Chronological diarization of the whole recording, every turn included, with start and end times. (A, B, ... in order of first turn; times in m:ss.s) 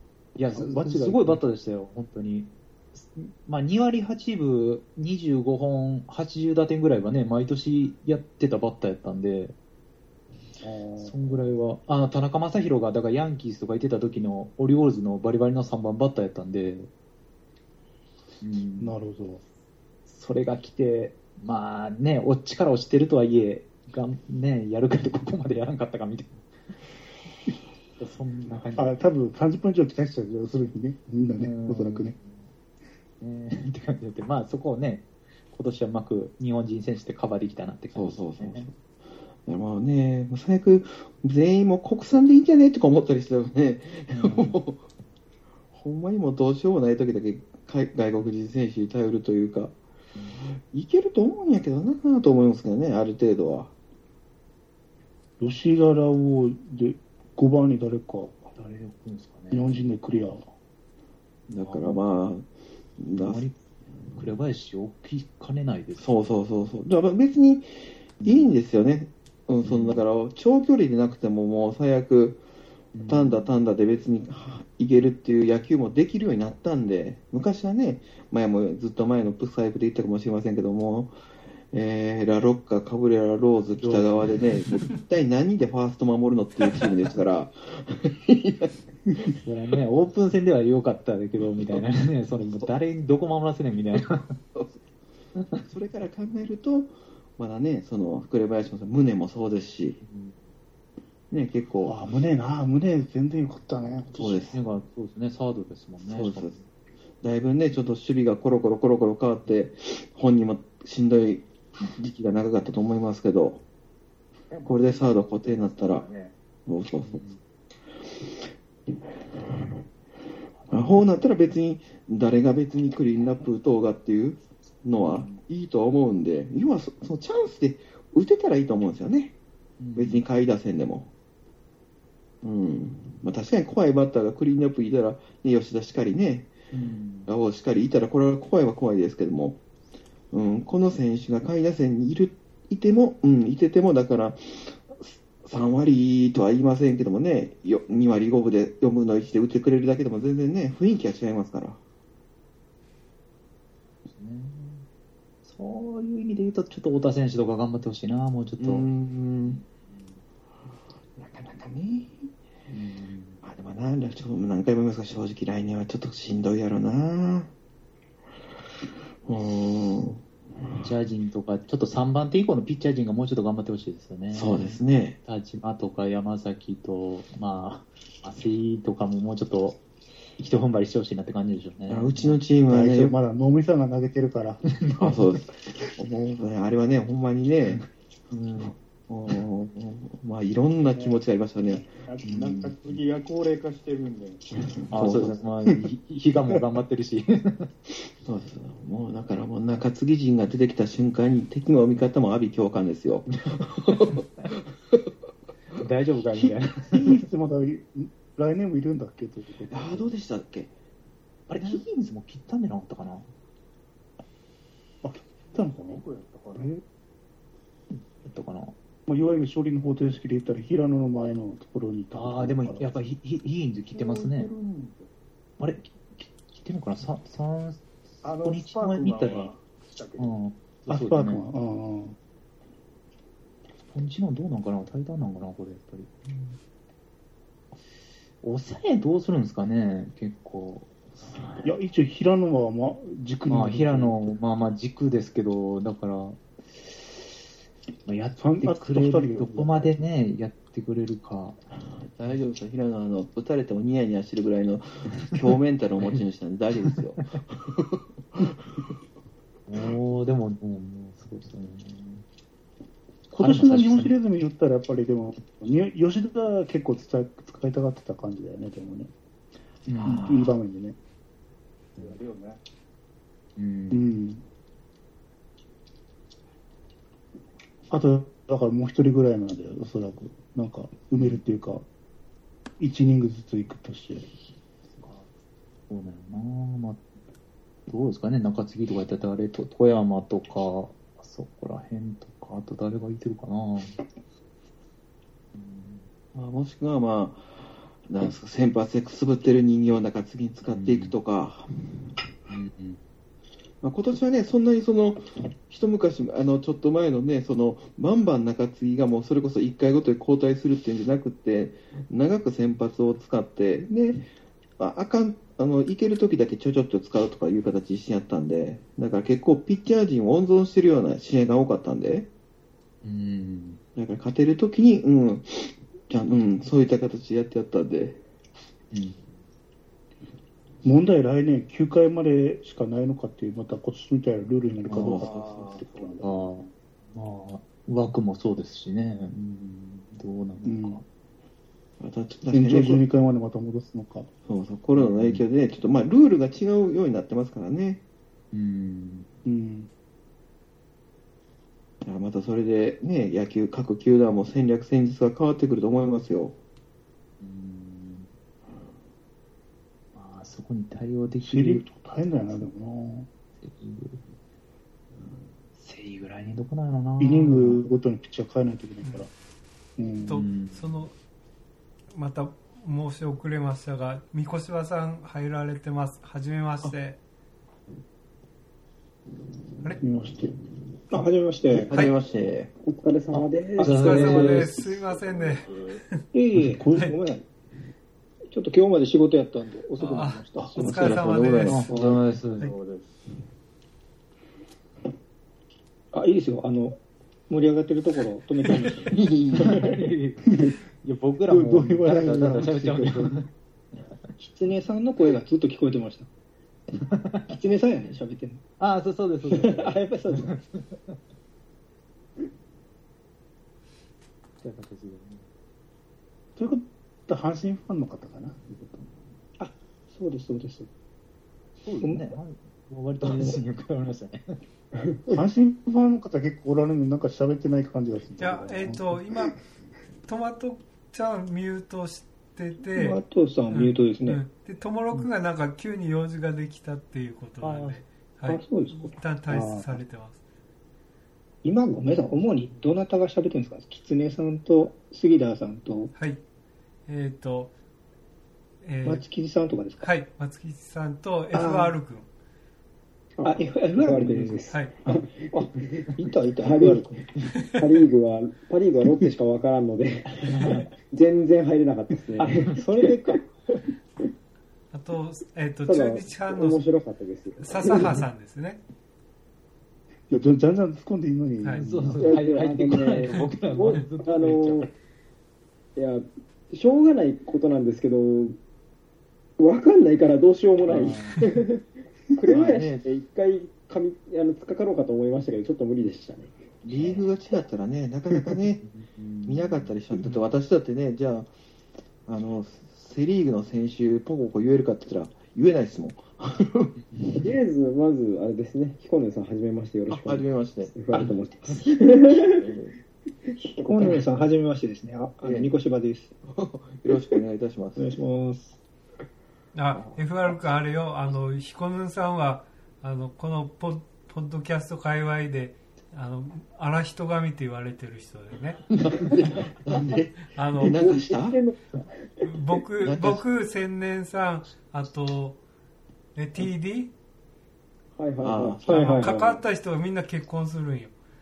0:00.4-0:09.6 A
0:00.5-0:01.4 B
0:10.6-0:11.4 B
0:11.0-0:16.9 A
0:18.4-0:19.0 A
0:18.8-0:19.4 B
0:20.1-0:26.4 A
0:28.0-0:29.0 A
0:28.8-0:32.2 B
0:31.4-0:32.5 A
0:33.2-0:38.7 A
0:38.0-0:38.8 C
0:39.4-0:44.9 C
0:44.1-0:44.6 A
0:45.7-0:49.7 C
0:50.2-0:50.4 A
0:50.7-0:53.7 C
0:55.4-0:58.5 B
0:58.6-0:59.9 A
0:59.5-1:00.4 B
1:01.5-1:02.5 C
1:01.6-1:02.2 A
1:03.0-1:03.4 C
1:03.2-1:03.6 A
1:04.2-1:06.2 A
1:06.0-1:12.4 C
1:08.2-1:08.5 A
1:09.6-1:10.0 A
1:13.0-1:13.6 A
1:13.1-1:21.2 C
1:21.7-1:28.7 C
1:23.8-1:24.4 A
1:29.4-1:34.3 A
1:35.6-1:40.0 C
1:40.0-1:40.4 A
1:41.3-1:42.0 C
1:41.8-1:44.5 B
1:44.2-1:44.6 C
1:44.5-1:46.7 A
1:46.0-1:46.6 C
1:47.2-1:53.6 C
1:54.5-1:56.3 D
1:54.6-1:56.1 C
1:56.7-1:57.2 C
1:57.0-1:57.4 A
2:00.7-2:09.4 C
2:05.0-2:05.4 A
2:09.8-2:10.2 A
2:10.0-2:11.1 C
2:12.4-2:16.5 C
2:16.7-2:17.3 A
2:17.3-2:19.6 C
2:20.3-2:31.8 C
2:34.0-2:34.8 A
2:35.4-2:38.9 A
2:38.6-2:39.6 C
2:39.4-2:40.2 A
2:41.2-2:42.3 C
2:42.7-2:43.4 A
2:43.4-2:47.5 C
2:49.2-2:50.2 C
2:50.8-2:59.8 A
2:54.3-2:55.2 C
3:00.4-3:02.4 A
3:01.9-3:03.2 C
3:02.7-3:04.6 B
3:04.8-3:05.2 A
3:05.0-3:07.8 C
3:08.3-3:08.7 A
3:08.6-3:11.9 C
3:12.0-3:15.3 D
3:12.2-3:13.0 A
3:14.8-3:15.4 C
3:14.9-3:17.7 A
3:18.2-3:24.3 C
3:25.8-3:27.1 A
3:26.9-3:30.1 B
3:29.7-3:30.7 C
3:31.5-3:33.3 A
3:35.0-3:36.0 B
3:35.5-3:36.7 D
3:37.9-3:38.8 A
3:39.1-3:42.8 B
3:42.1-3:44.5 A
3:43.9-3:45.1 D
3:45.6-3:49.5 A
3:48.2-3:50.4 D
3:50.2-3:51.5 A
3:50.9-3:52.2 B
3:53.9-3:56.6 A
3:58.4-4:01.7 A
4:01.6-4:04.4 B
4:03.5-4:06.4 A
4:08.1-4:11.6 A
4:08.4-4:10.0 B
4:12.1-4:18.5 C
4:19.7-4:22.2 A
4:23.3-4:29.1 B
4:23.4-4:24.2 A
4:29.9-4:30.4 A
4:30.0-4:30.5 C
4:30.1-4:31.0 B
4:32.0-4:32.6 D
4:33.6-4:34.0 A
4:33.9-4:34.4 B
4:37.9-4:41.8 B
4:41.2-4:41.4 A
4:42.8-4:44.3 B
4:44.9-4:45.2 A
4:45.9-4:47.0 A
4:47.9-4:54.0 A
4:55.6-4:56.1 A
4:56.3-5:01.7 C
5:00.7-5:01.2 A
5:02.5-5:03.0 A
5:03.8-5:22.3 C
5:23.0-5:23.8 A
5:24.0-5:28.2 C
5:28.9-5:29.3 A
5:30.8-5:36.2 B
5:34.9-5:35.2 A
5:35.0-5:35.3 C
5:35.0-5:36.5 D
5:36.2-5:41.0 A
5:40.6-5:41.0 B
5:42.0-5:43.0 C
5:42.5-5:44.3 B
5:44.4-5:48.0 C
5:45.0-5:45.4 A
5:48.5-5:49.3 A
5:49.4-5:49.9 B
5:52.0-5:56.6 C
5:57.4-5:58.3 A
6:00.2-6:01.8 A
6:01.5-6:03.3 B
6:03.6-6:04.2 A
6:05.8-6:07.8 A
6:07.2-6:09.3 B
6:10.0-6:10.4 B
6:10.3-6:11.0 A
6:10.3-6:11.1 E
6:12.1-6:17.2 E
6:20.0-6:20.6 B
6:21.1-6:22.0 F
6:21.7-6:22.7 C
6:22.9-6:24.7 G
6:23.8-6:24.6 F
6:23.8-6:24.7 A
6:23.8-6:26.2 E
6:24.8-6:26.0 D
6:26.3-6:27.4 F
6:26.7-6:27.0 B
6:28.5-6:31.2 F
6:30.0-6:31.9 E
6:30.8-6:31.9 C
6:31.6-6:32.7 A
6:31.9-6:32.2 F
6:32.1-6:33.4 D
6:36.1-6:37.0 F
6:37.5-6:40.0 F
6:39.2-6:39.8 C
6:39.6-6:43.5 A
6:41.5-6:43.3 B
6:44.4-6:46.3 F
6:47.0-6:47.5 A
6:47.5-6:48.6 F
6:48.8-6:51.1 A
6:49.5-6:50.6 F
6:54.6-6:55.4 A
6:56.6-6:59.0 B
6:59.6-7:00.9 F
7:01.8-7:04.6 A
7:02.0-7:02.3 F
7:05.3-7:09.2 B
7:08.4-7:09.6 E
7:10.3-7:20.4 E
7:12.9-7:14.4 F
7:17.6-7:18.0 A
7:18.5-7:19.8 F
7:21.6-7:26.1 F
7:26.2-7:26.4 E
7:27.1-7:27.7 E
7:28.8-7:29.2 E
7:29.0-7:30.1 F
7:30.0-7:32.3 E
7:31.5-7:32.0 F
7:33.4-7:37.2 F
7:33.4-7:36.1 G
7:34.7-7:35.0 E
7:36.6-7:37.1 G
7:37.8-7:43.4 G
7:40.4-7:40.9 A
7:42.4-7:43.4 F
7:44.9-7:46.8 E
7:45.8-7:48.2 G
7:47.6-7:48.8 E
7:50.3-7:52.3 B
7:51.8-7:54.9 A
7:52.2-7:54.9 G
7:56.0-7:58.6 G
7:59.6-8:06.6 G
8:00.9-8:01.5 A
8:02.5-8:03.0 C
8:06.8-8:08.8 C
8:08.8-8:10.4 A
8:09.5-8:11.5 C
8:12.3-8:16.9 C
8:17.1-8:17.4 A
8:17.4-8:22.7 G
8:20.1-8:20.9 C
8:22.4-8:22.9 C
8:23.6-8:26.3 F
8:23.8-8:24.2 G
8:25.4-8:25.7 C
8:26.5-8:28.0 C
8:28.0-8:28.8 F
8:29.8-8:38.9 E
8:29.9-8:30.2 C
8:39.0-8:41.6 C
8:40.5-8:41.0 E
8:40.8-8:42.5 G
8:42.4-8:45.6 E
8:43.0-8:43.4 C
8:46.4-8:47.1 E
8:48.2-8:49.6 G
8:48.4-8:48.9 C
8:48.9-8:49.4 F
8:48.9-8:51.1 E